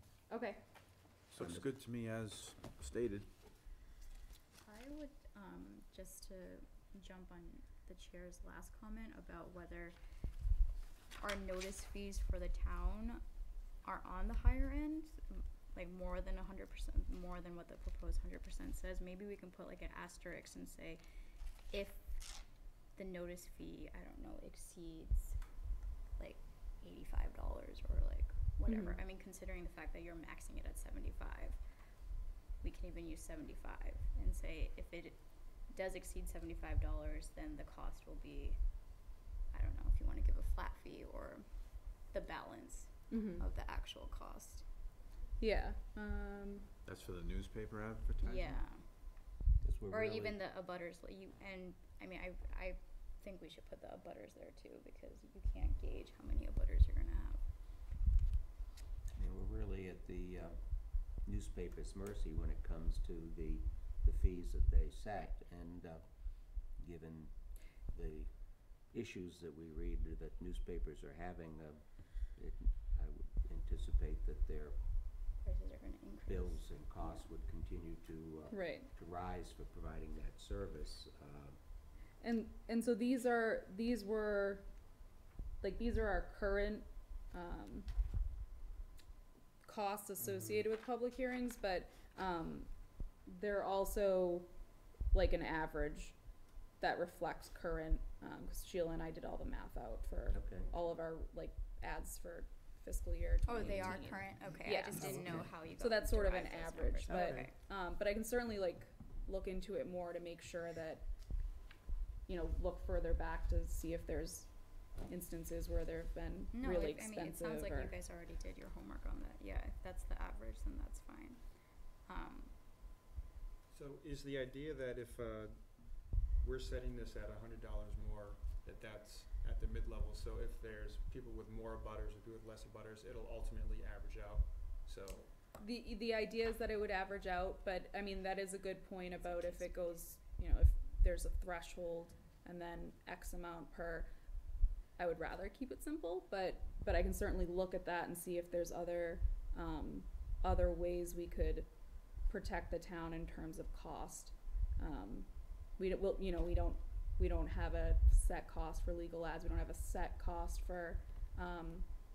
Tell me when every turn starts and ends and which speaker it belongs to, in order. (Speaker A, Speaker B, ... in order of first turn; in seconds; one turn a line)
Speaker A: 0.3-0.6
Speaker B: 1.3-3.3
Speaker C: 1.4-1.6
Speaker D: 4.6-10.0
Speaker D: 11.2-13.2
Speaker D: 13.8-21.0
Speaker D: 21.7-22.1
Speaker D: 23.0-25.4
Speaker D: 26.2-31.6
Speaker A: 28.7-29.0
Speaker D: 32.6-35.2
Speaker D: 35.7-38.6
Speaker D: 39.5-41.5
Speaker D: 42.1-44.6
Speaker A: 43.1-43.5
Speaker A: 45.4-46.7
Speaker B: 46.9-48.6
Speaker D: 48.2-48.9
Speaker C: 49.6-50.4
Speaker D: 49.9-57.4
Speaker C: 59.2-60.6
Speaker C: 61.2-66.0
Speaker C: 66.7-67.3
Speaker C: 67.9-68.3
Speaker C: 68.9-71.8
Speaker C: 72.3-74.8
Speaker D: 75.4-77.3
Speaker C: 76.3-81.6
Speaker A: 78.5-78.9
Speaker A: 82.2-84.7
Speaker A: 85.6-87.9
Speaker A: 89.7-92.7
Speaker C: 90.2-90.6
Speaker A: 93.3-94.5
Speaker A: 95.1-96.2
Speaker A: 96.8-111.1
Speaker C: 100.3-100.7
Speaker D: 103.5-107.5
Speaker C: 105.0-105.5
Speaker A: 112.3-114.5
Speaker A: 115.0-118.0
Speaker D: 116.5-121.4
Speaker D: 122.0-122.5
Speaker E: 123.7-135.3
Speaker A: 135.6-144.1
Speaker D: 139.2-140.0
Speaker A: 145.0-151.7
Speaker A: 152.3-161.9